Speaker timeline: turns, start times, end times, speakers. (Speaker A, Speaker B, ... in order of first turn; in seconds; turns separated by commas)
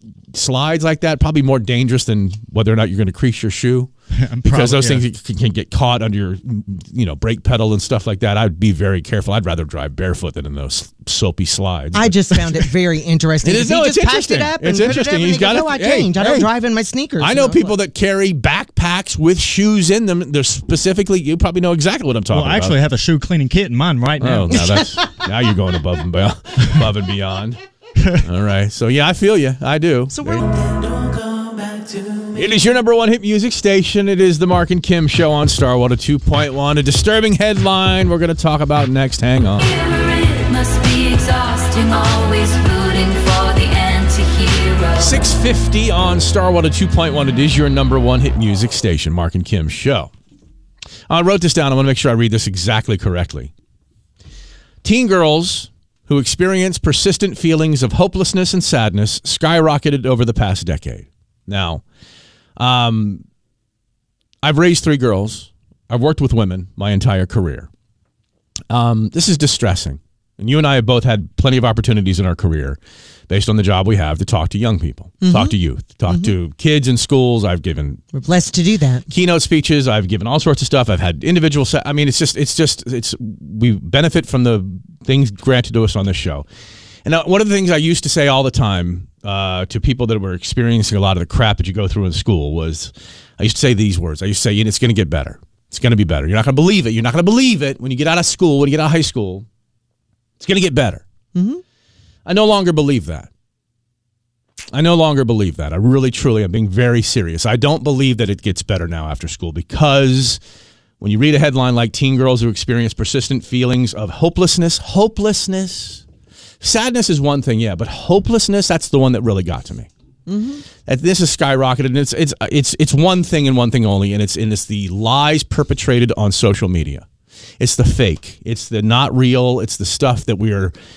Speaker A: 0.3-3.9, Speaker B: 4.1-5.0, Speaker A: 4.4-12.3, Speaker C: 11.9-17.7, Speaker A: 13.4-16.5, Speaker A: 17.2-22.8, Speaker B: 22.3-24.7, Speaker A: 24.2-27.6, Speaker C: 24.6-25.1, Speaker A: 28.2-30.4, Speaker C: 30.1-30.4, Speaker A: 32.3-39.6, Speaker D: 39.6-45.2, Speaker A: 45.0-50.1, Speaker A: 51.1-53.5, Speaker A: 54.8-61.8, Speaker A: 62.6-63.2, Speaker A: 64.4-67.7, Speaker A: 68.7-78.0, Speaker C: 75.2-75.5, Speaker C: 78.1-79.0, Speaker A: 79.1-86.5, Speaker A: 87.0-99.5, Speaker A: 100.4-101.0, Speaker C: 101.3-101.6, Speaker A: 102.2-103.3, Speaker A: 104.7-110.4, Speaker A: 111.0-116.0, Speaker A: 116.6-119.9, Speaker C: 120.3-120.6, Speaker A: 120.8-127.0, Speaker A: 127.6-130.7